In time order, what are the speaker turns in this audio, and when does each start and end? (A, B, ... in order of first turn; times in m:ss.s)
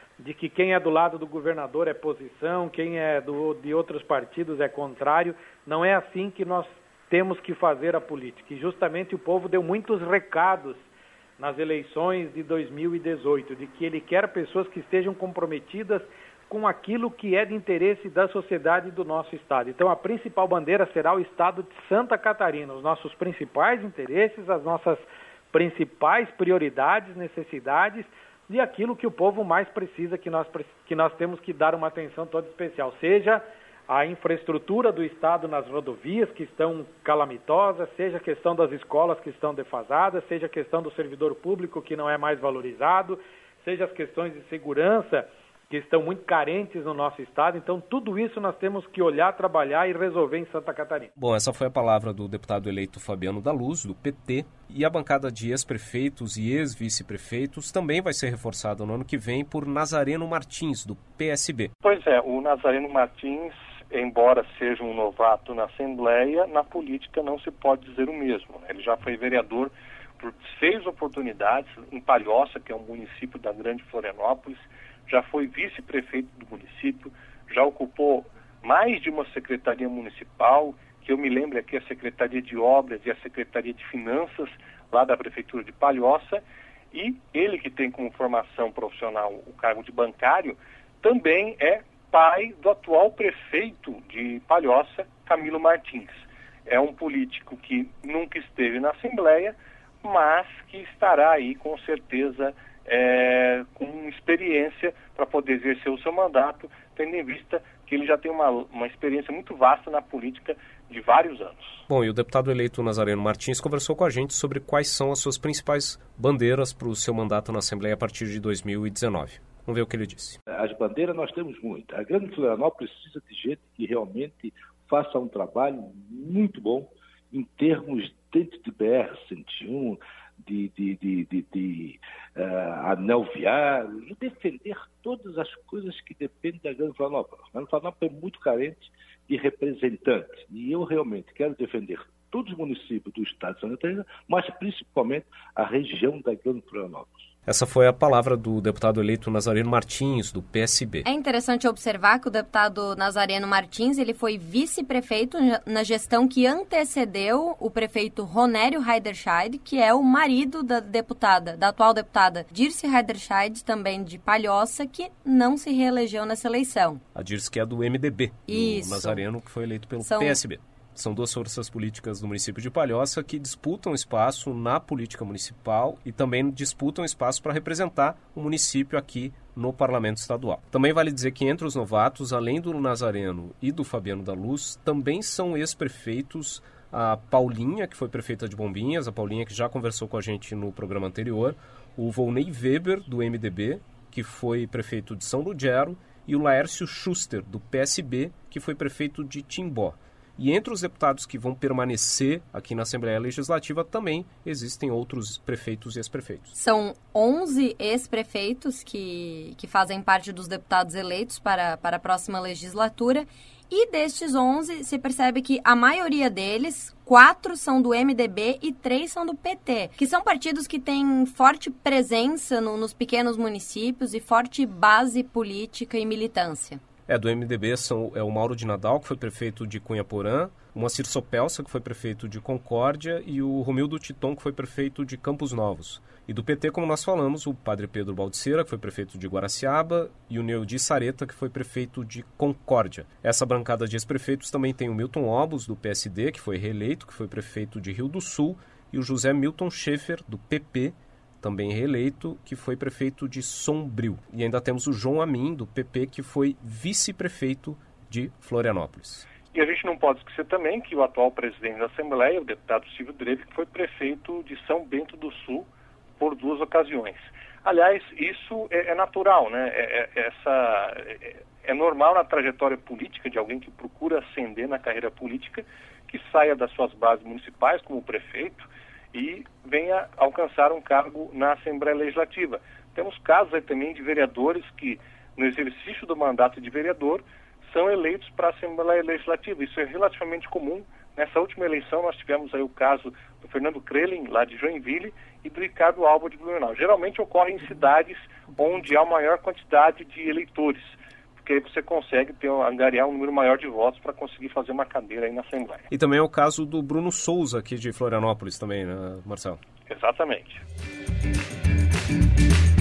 0:00.2-0:51.1 A
0:51.2-1:01.7 B
1:01.8-1:51.8 C
1:51.9-2:00.4 B
2:00.5-2:27.3 D
2:27.5-2:31.0 B
2:31.0-2:47.0 E
2:47.1-3:26.5 B
2:48.5-2:49.2 E
2:50.0-2:50.4 E
3:26.5-3:46.8 E
3:47.1-4:19.2 B
4:19.5-5:05.9 C
5:05.9-5:09.6 B
5:09.9-5:10.6 C